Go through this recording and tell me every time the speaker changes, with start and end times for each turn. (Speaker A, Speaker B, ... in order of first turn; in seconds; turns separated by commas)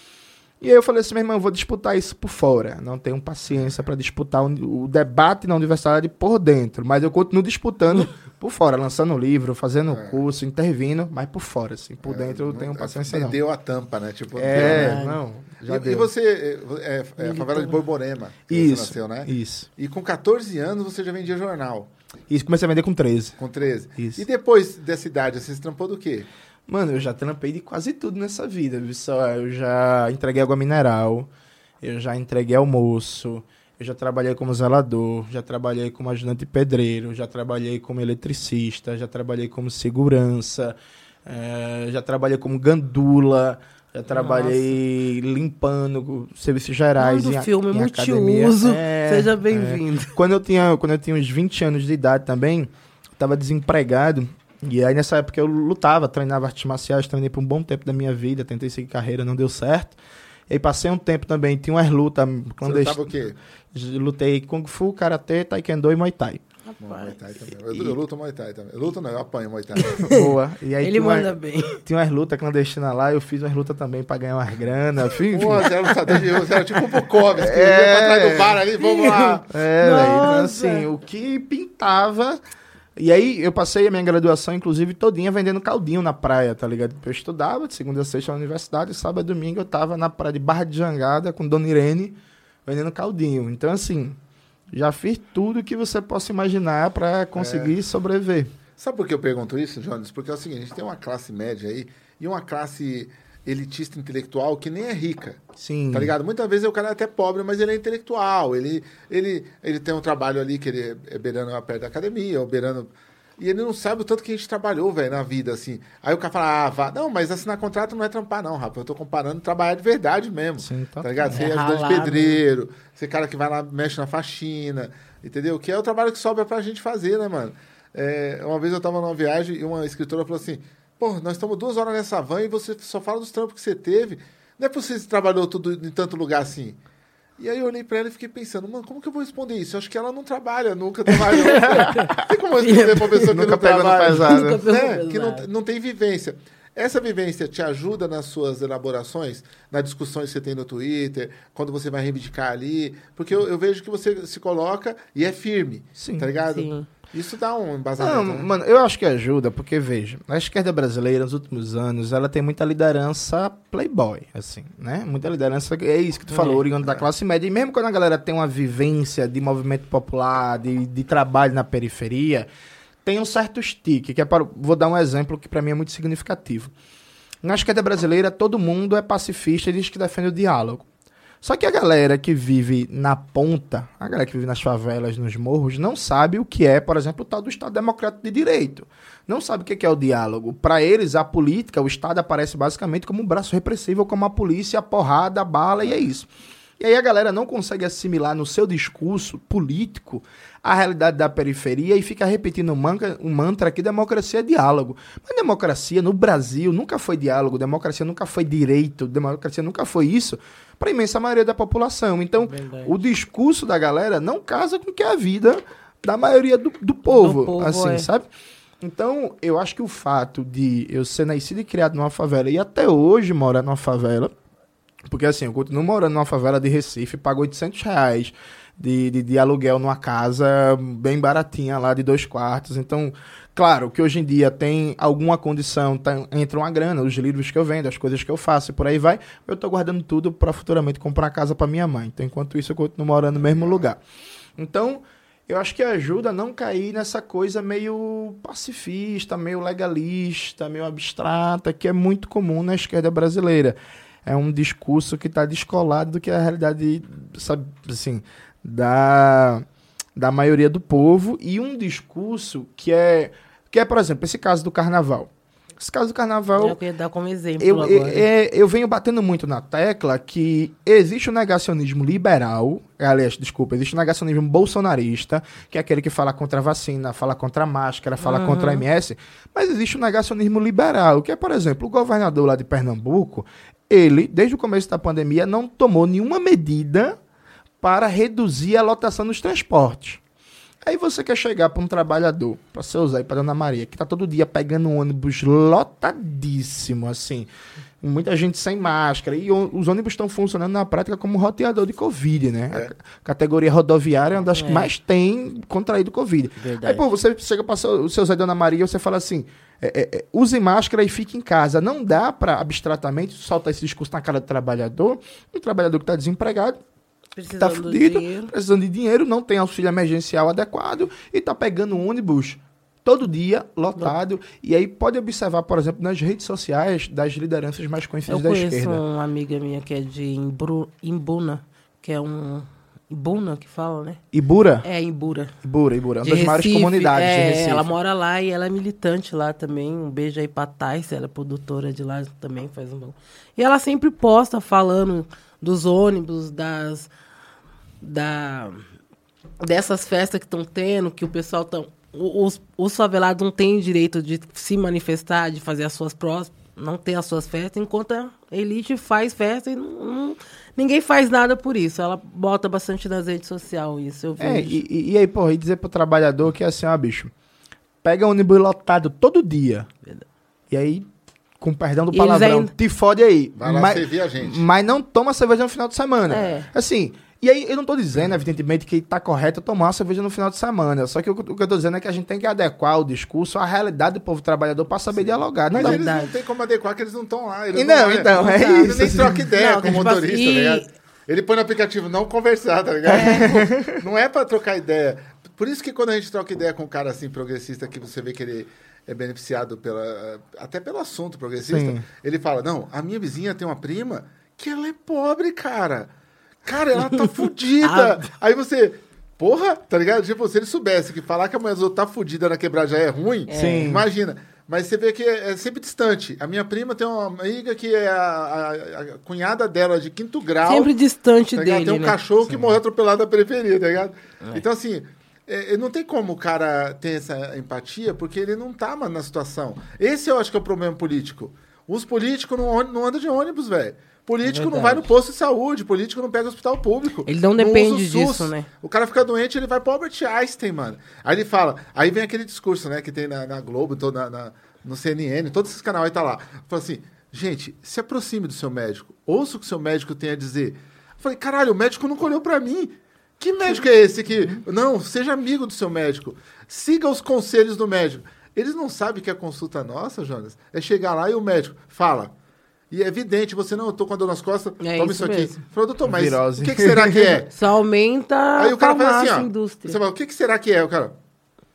Speaker A: 0.6-13.4, Speaker B: 9.9-10.2, Speaker B: 12.0-15.0, Speaker A: 14.3-16.1, Speaker C: 14.5-15.2, Speaker B: 15.7-21.9, Speaker C: 17.2-17.8, Speaker A: 18.5-19.7, Speaker A: 22.3-23.3, Speaker B: 23.4-26.3, Speaker A: 24.0-24.2, Speaker A: 26.7-31.3, Speaker A: 31.8-63.0, Speaker C: 44.1-44.7, Speaker C: 47.0-50.1, Speaker B: 62.6-63.4, Speaker A: 63.7-66.4, Speaker C: 66.7-67.1, Speaker B: 66.8-70.0, Speaker C: 69.8-70.2, Speaker A: 70.0-75.7, Speaker C: 70.8-71.8, Speaker B: 75.3-79.5, Speaker A: 77.4-78.6, Speaker C: 78.8-80.9, Speaker A: 79.5-82.4, Speaker A: 83.0-94.2, Speaker A: 94.7-98.5, Speaker B: 97.3-97.7, Speaker B: 98.8-105.4, Speaker A: 105.6-106.1, Speaker B: 105.9-136.8, Speaker A: 120.6-121.1, Speaker C: 121.2-122.4, Speaker B: 137.4-158.5, Speaker A: 141.4-142.2, Speaker C: 141.8-142.1, Speaker C: 142.6-143.3, Speaker A: 143.2-144.6, Speaker C: 144.2-145.4, Speaker A: 156.0-156.3, Speaker C: 156.5-156.9, Speaker A: 158.0-172.5, Speaker C: 166.3-166.6, Speaker A: 173.0-176.7, Speaker A: 177.4-180.9, Speaker A: 181.4-196.3, Speaker A: 196.8-218.3, Speaker C: 212.4-213.0, Speaker C: 217.1-218.1, Speaker A: 218.8-224.3, Speaker A: 225.1-244.0, Speaker A: 244.6-259.6, Speaker A: 260.1-266.8, Speaker C: 266.5-268.2, Speaker A: 267.6-287.2, Speaker C: 278.2-278.8, Speaker A: 287.8-290.2, Speaker A: 290.8-297.5, Speaker A: 298.0-316.8, Speaker C: 304.6-304.9, Speaker C: 306.6-307.0, Speaker C: 317.4-318.5, Speaker A: 317.6-329.0, Speaker C: 328.3-334.2, Speaker A: 334.3-334.9, Speaker C: 334.8-335.5, Speaker A: 335.6-337.9, Speaker C: 336.2-347.1, Speaker C: 348.0-348.8, Speaker C: 349.6-364.8, Speaker A: 364.4-367.3, Speaker A: 368.0-369.9, Speaker A: 370.7-371.1, Speaker A: 371.6-386.0, Speaker C: 372.1-372.7, Speaker B: 373.6-374.6, Speaker C: 376.3-376.7, Speaker B: 385.2-406.1, Speaker C: 385.7-386.3, Speaker A: 387.7-389.4, Speaker C: 388.4-390.9, Speaker A: 393.1-394.0, Speaker A: 401.6-402.0, Speaker B: 406.6-420.9, Speaker C: 407.8-408.2, Speaker C: 413.5-413.9, Speaker A: 413.5-414.1, Speaker C: 420.6-422.2, Speaker B: 421.6-462.3, Speaker C: 434.4-435.0, Speaker C: 437.2-438.7, Speaker B: 462.9-467.5, Speaker C: 464.8-465.6, Speaker A: 466.0-467.4, Speaker C: 467.5-470.0, Speaker B: 468.6-471.1